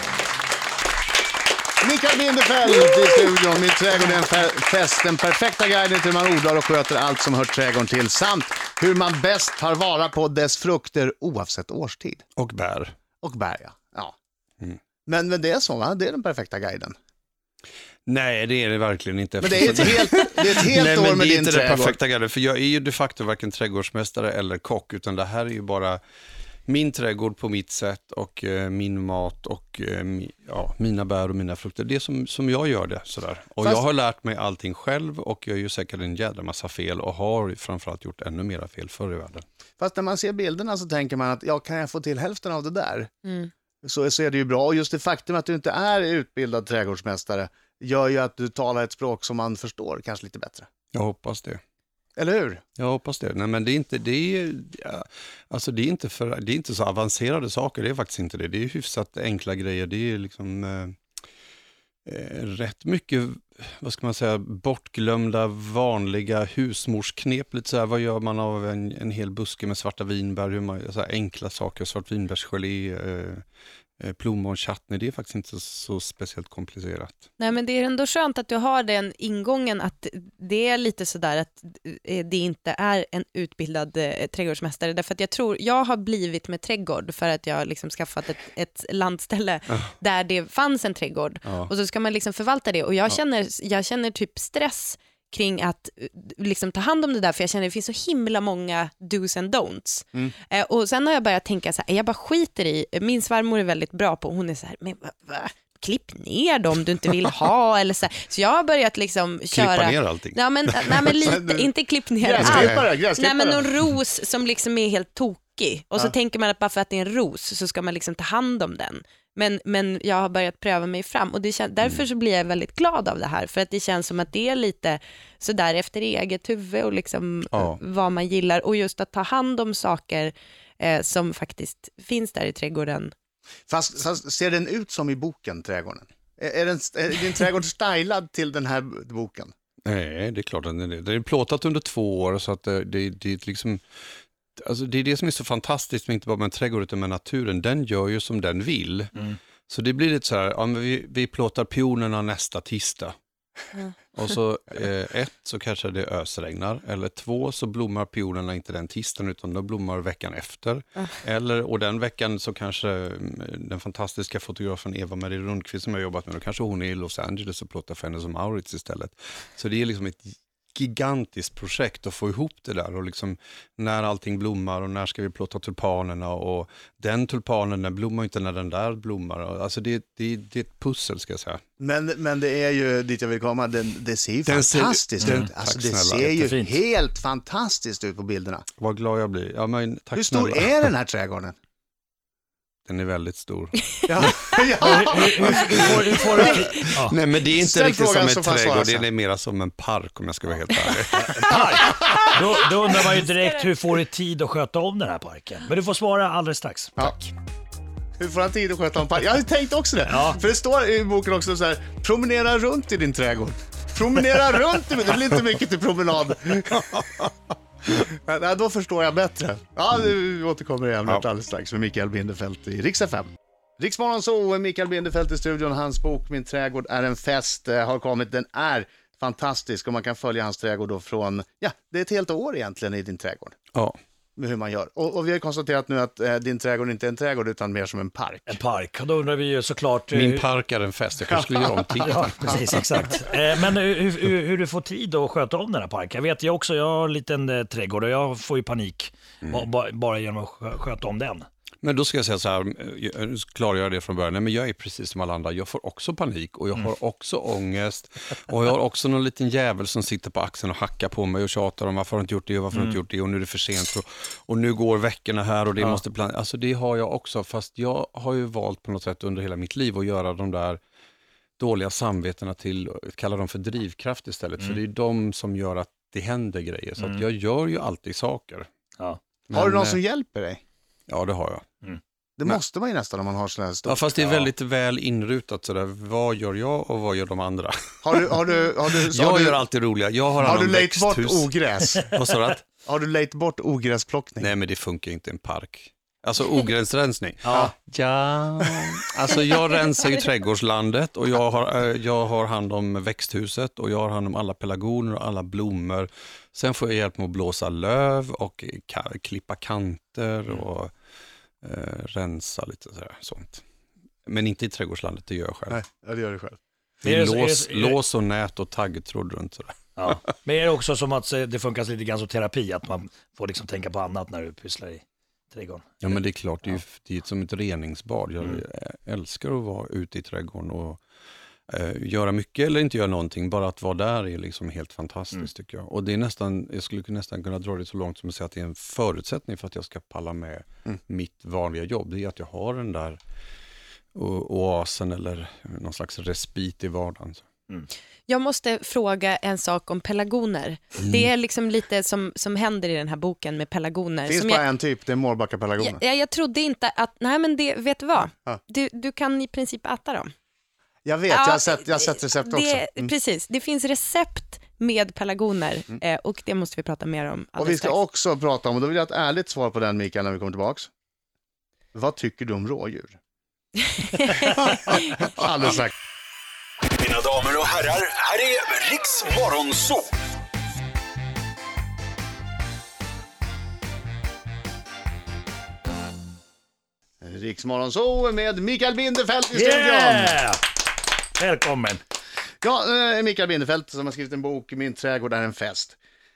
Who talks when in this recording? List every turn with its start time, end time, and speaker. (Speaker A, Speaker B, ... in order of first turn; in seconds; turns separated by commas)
Speaker A: 1.8-12.2, Speaker B: 12.3-12.9, Speaker A: 13.2-14.1, Speaker A: 15.1-16.9, Speaker B: 18.1-26.0, Speaker A: 19.4-22.0, Speaker B: 26.6-39.4, Speaker A: 39.8-43.1, Speaker C: 43.2-43.5, Speaker A: 43.8-50.7, Speaker B: 50.9-51.6, Speaker A: 52.1-52.6, Speaker B: 52.8-61.0, Speaker B: 62.0-73.4, Speaker B: 74.0-77.3, Speaker C: 77.4-133.1, Speaker B: 91.4-91.7, Speaker B: 109.5-111.1, Speaker A: 111.2-113.7, Speaker B: 112.4-112.8, Speaker B: 127.5-127.8, Speaker A: 133.7-139.5, Speaker B: 139.8-143.8, Speaker B: 144.6-149.1, Speaker B: 149.7-153.2, Speaker B: 154.1-181.6, Speaker A: 181.8-188.7, Speaker B: 184.4-186.5, Speaker D: 185.2-185.5, Speaker D: 186.3-186.7, Speaker B: 188.8-190.8, Speaker A: 190.2-191.5, Speaker B: 192.8-194.6, Speaker A: 194.1-196.9, Speaker D: 194.8-197.2, Speaker B: 195.4-201.9, Speaker A: 197.5-199.1, Speaker D: 201.2-207.0, Speaker A: 201.8-202.4, Speaker C: 203.3-203.6, Speaker A: 208.2-217.0, Speaker D: 210.1-210.4, Speaker B: 216.7-217.3, Speaker A: 217.9-233.6, Speaker B: 233.7-234.0, Speaker A: 234.4-238.6, Speaker D: 238.5-240.4, Speaker B: 240.1-243.2, Speaker A: 241.3-241.6, Speaker D: 242.0-251.5, Speaker B: 249.4-249.7, Speaker B: 251.8-270.8, Speaker D: 262.7-263.0, Speaker B: 271.6-278.7, Speaker D: 277.0-277.2, Speaker B: 279.5-280.0, Speaker A: 279.5-280.6, Speaker B: 281.1-281.6, Speaker A: 282.4-284.3, Speaker B: 283.9-288.4, Speaker A: 288.0-289.6, Speaker B: 289.0-292.6, Speaker A: 290.4-292.1, Speaker A: 292.8-294.5, Speaker B: 294.4-310.9, Speaker D: 297.4-297.7, Speaker A: 297.5-297.7, Speaker B: 311.6-313.6, Speaker B: 314.2-315.8, Speaker A: 315.7-316.6, Speaker D: 317.0-318.0, Speaker B: 317.0-320.2, Speaker D: 320.0-326.1, Speaker B: 326.0-331.0, Speaker B: 331.7-343.2, Speaker B: 344.1-347.4, Speaker C: 348.3-354.6, Speaker B: 351.0-351.3, Speaker A: 354.3-356.0, Speaker C: 355.8-360.3, Speaker A: 361.0-363.1, Speaker C: 361.3-368.0, Speaker A: 367.6-370.9, Speaker A: 371.9-373.2, Speaker C: 374.1-374.6, Speaker A: 374.4-375.9, Speaker E: 376.9-380.1, Speaker A: 387.2-390.4, Speaker D: 389.5-390.6, Speaker D: 391.4-392.0, Speaker A: 392.6-395.9